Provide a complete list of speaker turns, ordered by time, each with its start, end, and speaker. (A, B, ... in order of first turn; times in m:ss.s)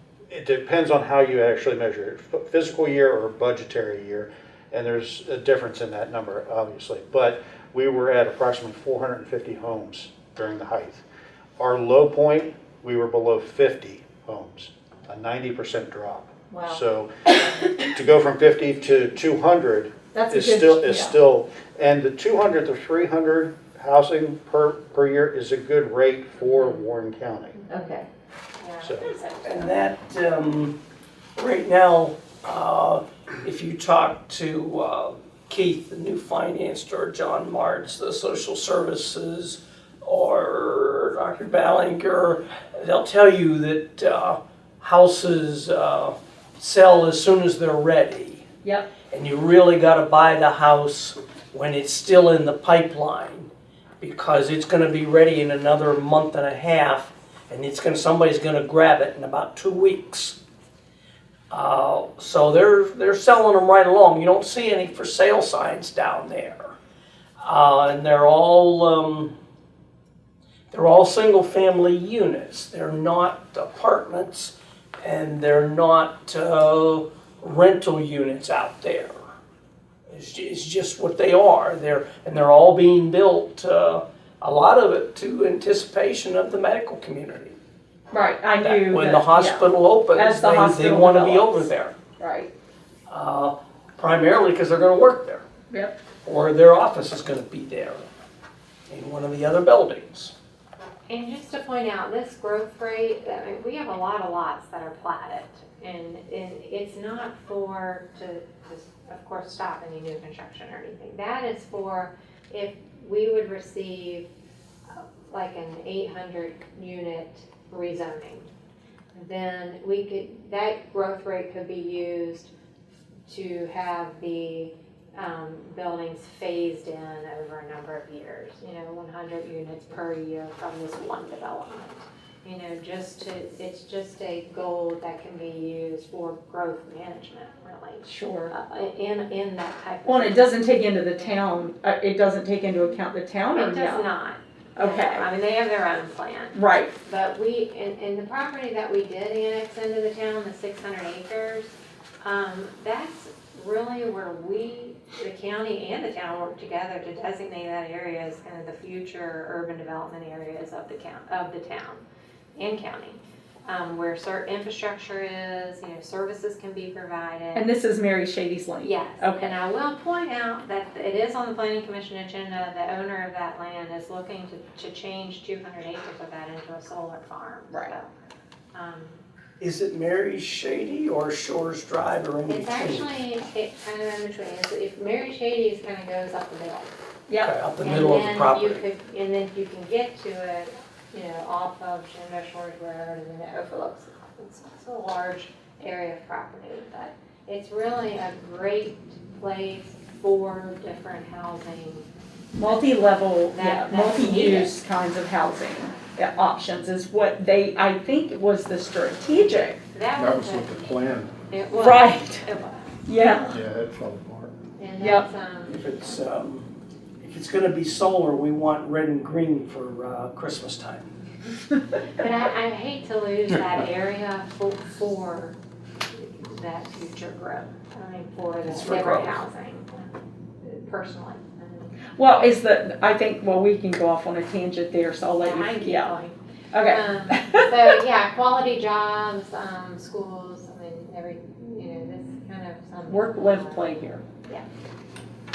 0:00.3-0:11.0 A
0:11.6-0:27.6 A
0:17.6-0:17.9 B
0:20.1-0:21.2 B
0:27.6-0:27.9 C
0:27.7-0:28.0 B
0:28.6-0:29.8 C
0:28.8-0:29.1 A
0:29.4-0:30.7 D
0:31.4-0:48.5 D
0:48.6-0:48.9 B
0:49.1-1:00.4 D
1:01.5-1:06.7 D
1:07.4-1:09.3 D
1:10.7-1:19.1 D
1:20.1-1:27.6 D
1:28.1-1:32.5 B
1:28.6-1:32.0 D
1:33.1-1:35.4 D
1:35.7-1:36.0 B
1:36.2-1:38.1 D
1:38.9-1:40.3 D
1:41.1-1:54.3 C
1:54.9-1:58.5 C
1:59.1-2:02.5 C
2:03.3-2:20.6 C
2:18.0-2:18.5 B
2:20.0-2:24.1 B
2:23.5-2:42.0 C
2:24.8-2:25.3 B
2:26.5-2:26.9 B
2:42.6-2:47.7 C
2:47.6-2:49.5 B
2:48.8-2:58.1 C
2:58.7-2:59.2 C
2:59.6-3:03.1 D
3:02.5-3:06.9 C
3:07.4-3:08.8 D
3:07.8-3:22.1 C
3:22.6-3:29.8 B
3:22.6-3:22.9 C
3:23.5-3:24.8 C
3:29.9-3:33.5 C
3:30.2-3:31.3 E
3:31.8-3:32.4 B
3:33.1-3:33.5 B
3:33.5-3:34.5 E
3:34.8-3:35.9 C
3:35.7-3:36.7 D
3:37.2-3:41.1 D
3:42.2-3:45.6 C
3:46.1-3:52.0 C
3:48.7-3:49.4 D
3:52.1-3:56.1 B
3:55.4-4:04.7 C
3:56.7-3:57.7 B
4:03.1-4:04.2 B